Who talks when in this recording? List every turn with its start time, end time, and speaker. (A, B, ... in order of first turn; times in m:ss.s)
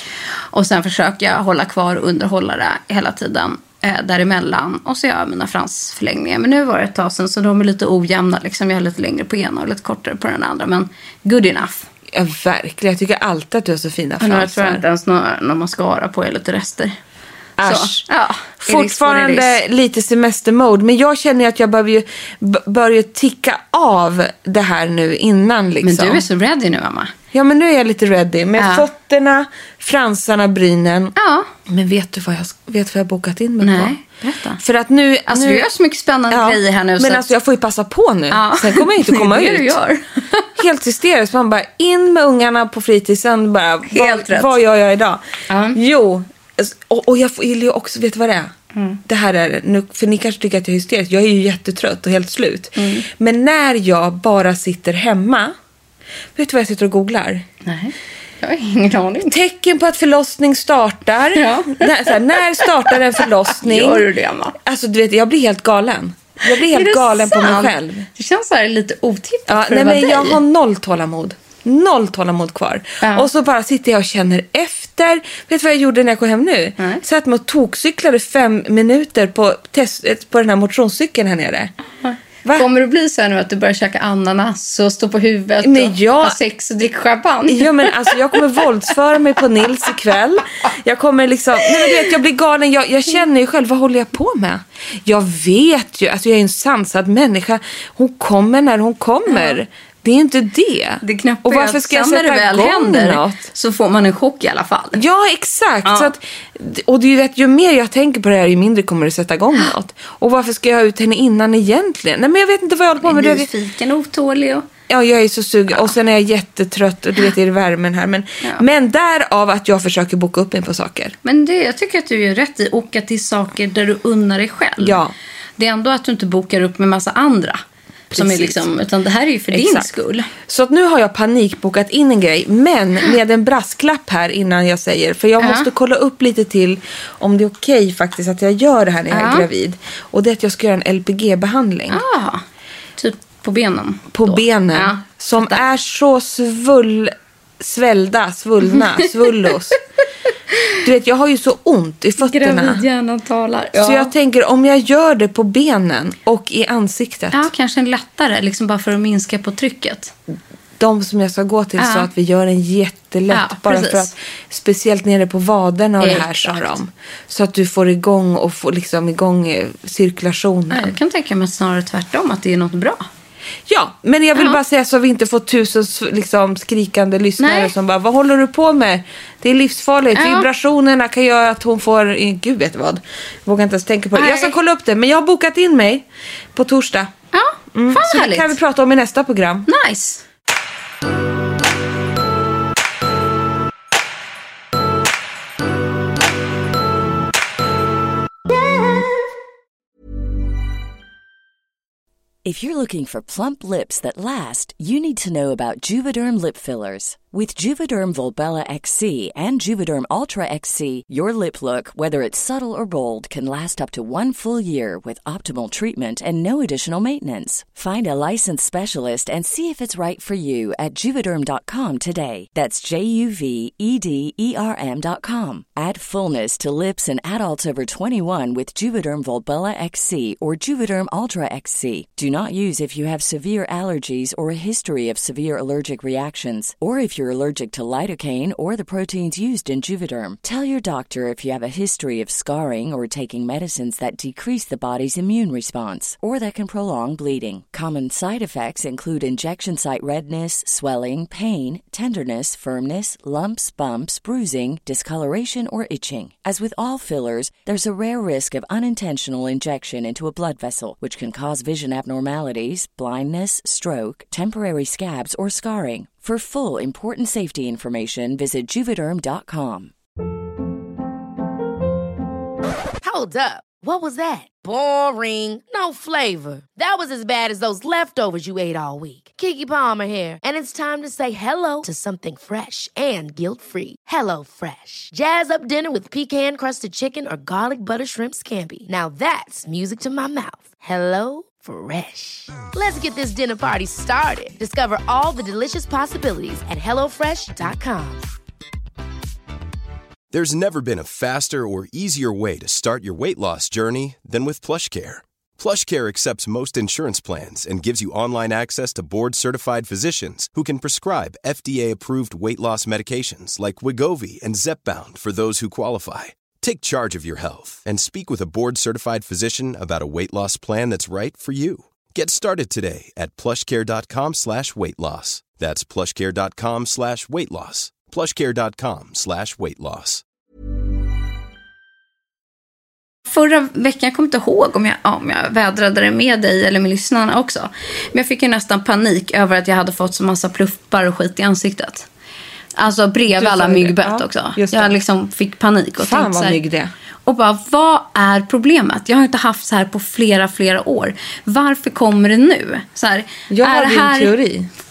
0:00.5-0:11.9 A
0:12.1-0:14.8 B
0:14.2-0:17.0 A
0:17.6-0:18.1 B
0:17.6-0:19.6 A
0:18.6-0:26.2 B
0:25.8-0:27.1 A
0:27.3-0:31.1 B
0:28.6-0:28.9 A
0:31.2-0:31.5 A
0:31.7-0:34.0 B
0:33.6-0:34.6 A
0:34.6-0:35.7 B
0:35.3-0:37.3 A
0:36.3-0:39.8 B
0:38.3-0:40.5 A
0:40.6-0:45.2 B
0:43.9-0:44.5 A
0:45.5-0:45.8 A
0:45.7-0:48.5 B
0:48.7-0:49.0 A
0:49.0-0:55.5 B
0:52.8-0:53.1 A
0:56.4-0:57.4 B
0:57.6-0:59.3 A
0:59.3-1:04.1 B
1:01.3-1:04.6 A
1:04.6-1:08.1 B
1:06.4-1:10.4 A
1:09.5-1:21.7 B
1:13.0-1:13.3 A
1:22.0-1:28.6 A
1:25.6-1:26.4 B
1:27.5-1:43.5 B
1:39.3-1:39.6 A
1:41.0-1:45.0 A
1:44.9-1:53.5 B
1:45.8-1:46.1 A
1:53.0-1:54.6 A
1:54.9-2:01.2 B
2:01.2-2:05.0 A
2:04.8-2:05.1 B
2:05.6-2:07.6 A
2:08.1-2:08.7 B
2:08.1-2:10.3 A
2:09.5-2:09.9 B
2:10.4-2:22.0 B
2:15.4-2:15.7 A
2:19.1-2:19.5 A
2:21.9-2:22.4 A
2:23.0-2:25.6 A
2:24.1-2:29.8 B
2:30.8-2:32.8 B
2:32.2-2:34.1 A
2:33.7-2:37.5 B
2:37.3-2:40.1 A
2:40.8-2:51.0 B
2:41.8-2:42.1 A
2:43.3-2:44.1 A
2:46.0-2:46.8 A
2:50.7-2:53.0 A
2:53.7-3:07.1 B
2:57.4-2:57.7 A
3:00.1-3:00.5 A
3:04.1-3:04.5 A
3:07.3-3:08.6 A
3:07.7-3:09.7 B
3:09.7-3:10.2 A
3:22.4-4:29.9 C
4:33.0-4:58.2 D
5:00.3-5:30.2 E
5:33.3-5:42.1 A
5:42.8-5:46.6 A
5:43.3-5:44.9 B
5:46.0-5:46.9 B
5:47.2-5:54.3 A
5:53.5-5:54.7 B